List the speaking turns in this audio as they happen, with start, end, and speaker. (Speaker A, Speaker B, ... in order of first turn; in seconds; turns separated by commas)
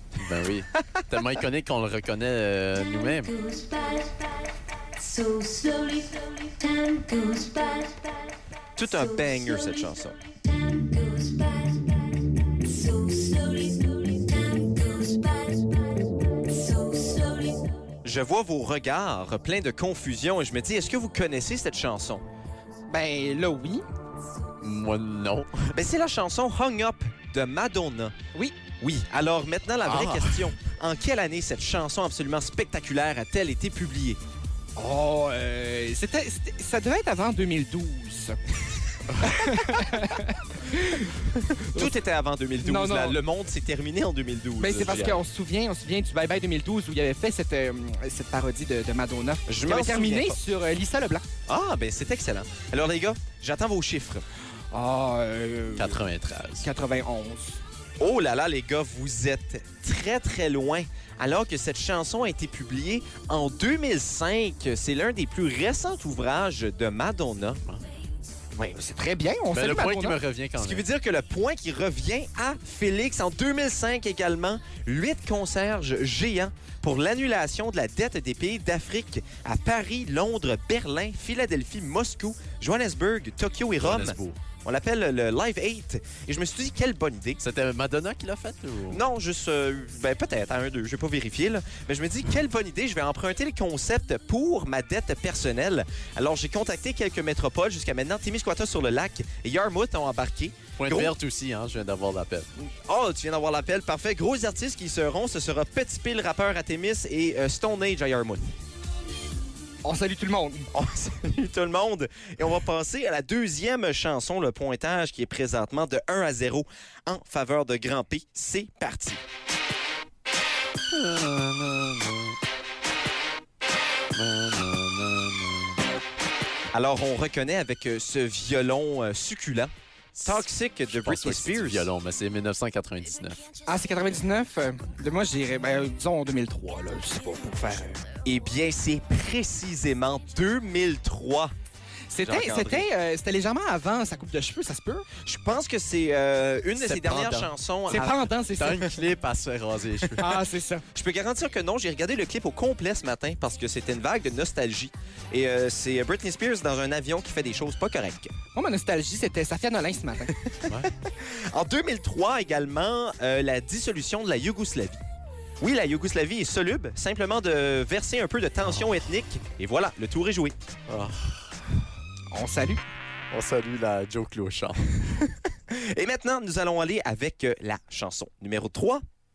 Speaker A: 0.2-3.3, Speaker B: 2.8-17.9, Speaker C: 8.8-10.2, Speaker C: 18.0-22.2, Speaker D: 22.9-23.9, Speaker A: 24.6-25.7, Speaker C: 25.7-28.1, Speaker C: 28.8-34.2, Speaker A: 29.8-30.4, Speaker D: 34.8-38.4, Speaker D: 39.2-41.1, Speaker C: 41.7-45.1, Speaker D: 42.6-43.2, Speaker D: 44.6-51.2, Speaker A: 44.6-45.2, Speaker C: 49.5-50.4, Speaker C: 51.5-54.2, Speaker D: 54.7-56.0, Speaker A: 55.8-56.6, Speaker D: 56.6-57.6, Speaker C: 58.0-67.6, Speaker D: 68.5-70.2, Speaker A: 69.5-70.8, Speaker C: 70.6-87.4, Speaker A: 83.8-84.4, Speaker A: 87.4-89.0, Speaker C: 88.9-101.1, Speaker A: 100.8-102.5, Speaker C: 102.6-108.5, Speaker D: 109.8-110.7, Speaker C: 110.7-119.2, Speaker A: 120.9-122.4, Speaker A: 124.1-125.8, Speaker C: 126.7-129.7, Speaker C: 130.2-131.9, Speaker A: 130.9-133.4, Speaker D: 133.6-138.1, Speaker C: 138.2-141.5, Speaker D: 142.1-145.1, Speaker C: 142.2-142.8, Speaker C: 145.2-148.3, Speaker A: 146.8-147.5, Speaker D: 147.9-149.0, Speaker A: 148.6-150.4, Speaker D: 150.2-150.8, Speaker C: 150.9-158.3, Speaker D: 158.5-160.3, Speaker C: 160.4-165.0, Speaker C: 165.6-170.5, Speaker A: 170.9-171.5, Speaker D: 172.3-172.8, Speaker A: 173.3-175.0, Speaker C: 175.7-179.0